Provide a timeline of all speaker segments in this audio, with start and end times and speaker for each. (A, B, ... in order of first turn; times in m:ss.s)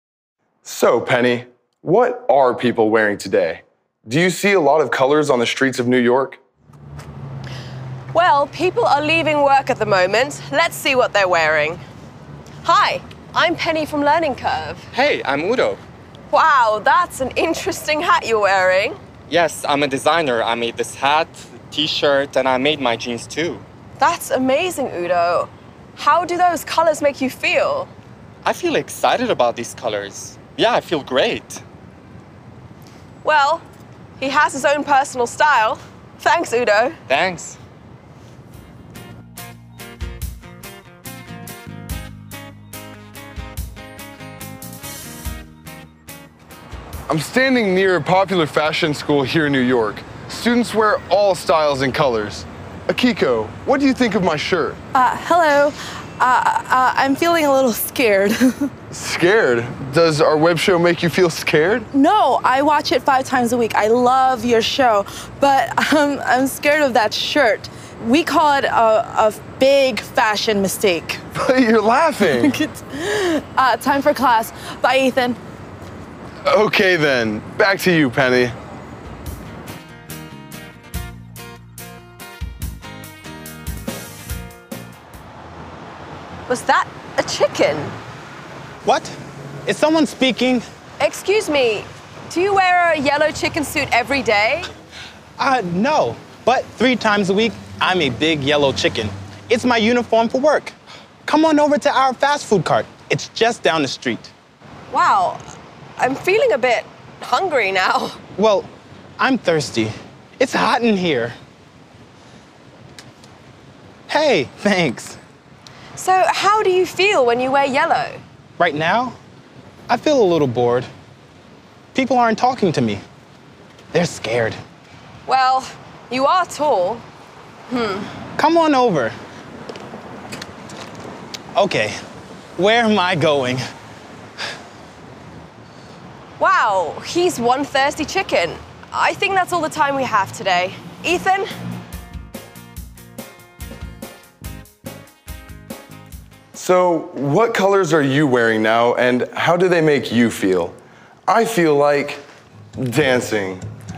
0:00.6-0:06.4 A
0:08.1-0:11.8 B
0:12.6-0:14.8 B
0:14.9-0:15.8 C
0:16.3-0:19.0 B
0:19.3-0:23.6 C
0:24.0-0:27.9 B
0:28.4-0:31.6 C
0:33.2-0:33.6 B
0:34.2-0:37.0 B
0:37.1-0:37.6 C
0:47.1-0:54.8 A
0:54.9-0:58.7 D
0:58.9-1:01.9 A
1:01.9-1:11.2 D
1:11.3-1:12.6 A
1:12.4-1:15.4 D
1:16.4-1:18.5 A
1:26.5-1:27.9 B
1:28.8-1:29.1 E
1:29.6-1:30.6 E
1:31.0-1:34.7 B
1:35.4-1:40.7 E
1:41.2-1:44.3 E
1:44.9-1:45.4 B
1:46.0-1:48.2 B
1:48.4-1:51.4 E
1:54.1-1:55.2 E
1:56.0-1:58.2 B
1:58.6-1:59.1 E
1:59.9-2:00.9 E
2:01.9-2:03.0 E
2:03.9-2:04.6 E
2:05.3-2:07.0 B
2:07.7-2:08.1 B
2:08.4-2:09.1 E
2:11.6-2:11.9 E
2:12.6-2:13.6 E
2:16.4-2:21.5 B
2:26.5-2:32.2 A
2:32.8-2:33.6 A